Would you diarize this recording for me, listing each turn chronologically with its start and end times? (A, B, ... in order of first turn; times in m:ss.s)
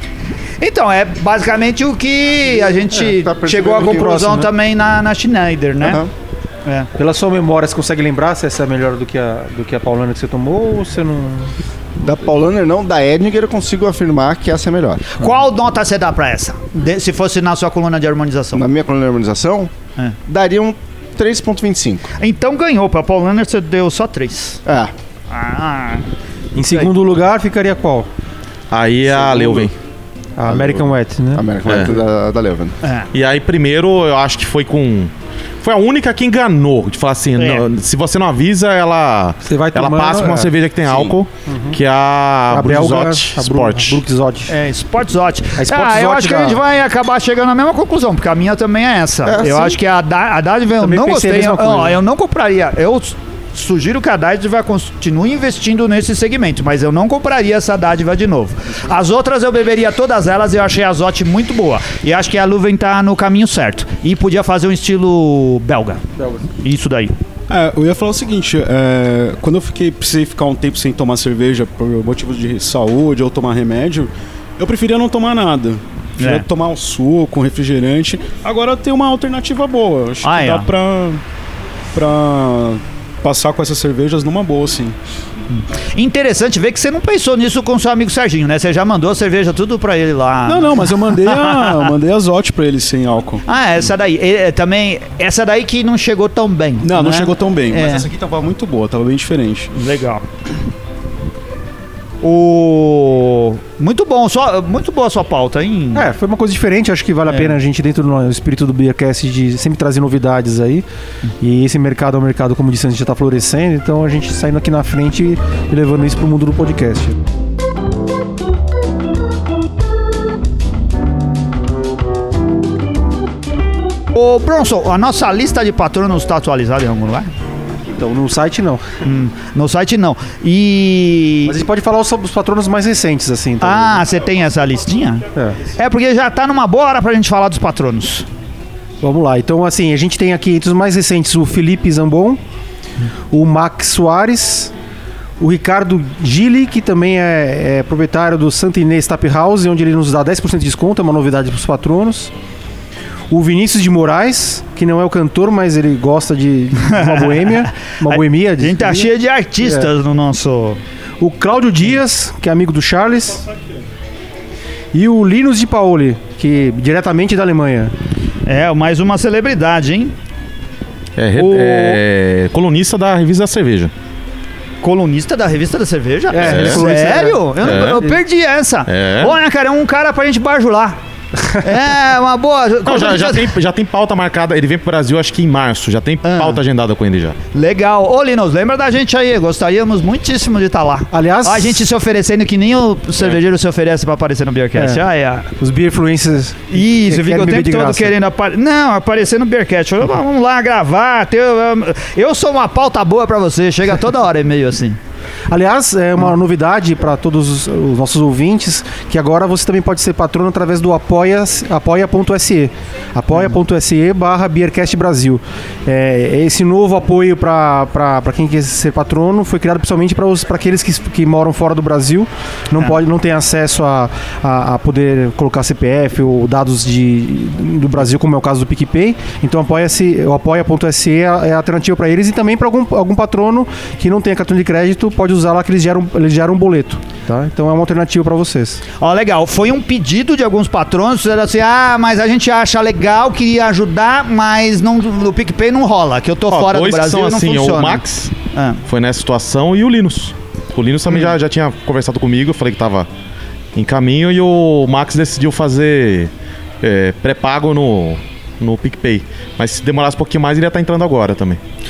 0:00.6-0:06.0 A
0:02.9-0:04.4 B
0:03.7-0:04.5 C
0:05.8-0:06.1 B
0:07.0-0:11.5 C
0:12.0-0:15.0 B
0:15.1-0:18.7 A
0:18.5-0:19.7 B
0:20.3-0:22.1 B
0:22.2-0:24.6 A
0:24.7-0:24.9 B
0:25.3-0:26.1 A
0:26.6-0:28.1 C
0:28.7-0:29.7 D
0:29.1-0:29.7 B
0:30.4-0:31.5 C
0:30.4-0:32.8 B
0:31.7-0:31.9 D
0:32.8-0:33.1 A
0:33.1-0:35.1 D
0:35.6-0:44.0 D
0:37.4-0:37.6 A
0:39.4-0:40.5 C
0:40.9-0:41.1 B
0:41.5-0:41.8 C
0:42.5-0:44.5 C
0:44.5-1:06.0 A
0:45.6-0:46.6 C
0:49.2-0:49.8 B
0:50.8-0:52.0 C
1:06.6-1:07.1 A
1:07.5-1:21.2 E
1:16.2-1:16.4 A
1:20.2-1:20.7 A
1:21.9-1:25.0 E
1:25.5-1:31.9 A
1:30.5-1:33.4 E
1:33.5-1:38.1 A
1:36.8-1:39.7 E
1:39.8-1:40.2 A
1:42.2-1:46.1 A
1:45.9-1:50.8 C
1:47.3-1:47.6 A
1:51.4-1:57.2 C
2:04.1-2:07.3 A
2:07.9-2:08.8 C
2:09.0-2:11.6 A
2:11.5-2:14.0 C
2:13.6-2:18.3 A
2:19.0-2:22.4 C
2:23.3-2:24.7 C
2:25.4-2:32.3 C
2:33.3-2:39.9 C
2:36.8-2:40.8 A
2:41.2-2:43.5 C
2:44.9-2:47.9 C
2:48.5-2:50.1 A
2:51.2-2:53.9 D
2:51.4-2:52.0 A
2:54.8-3:01.0 A
2:56.3-2:57.9 C
2:56.4-2:56.8 D
2:57.6-2:58.0 D
2:58.9-2:59.4 D
3:01.6-3:03.5 A
3:02.8-3:07.4 D
3:06.2-3:06.6 A
3:07.5-3:15.5 A
3:11.1-3:11.9 C
3:14.8-3:15.0 C
3:15.6-3:18.2 C
3:16.7-3:25.0 A
3:25.5-3:58.8 C
3:59.0-4:08.8 A
4:06.5-4:08.3 D
4:08.9-4:13.1 D
4:11.1-4:11.3 A
4:13.8-4:16.3 D
4:16.8-4:21.6 D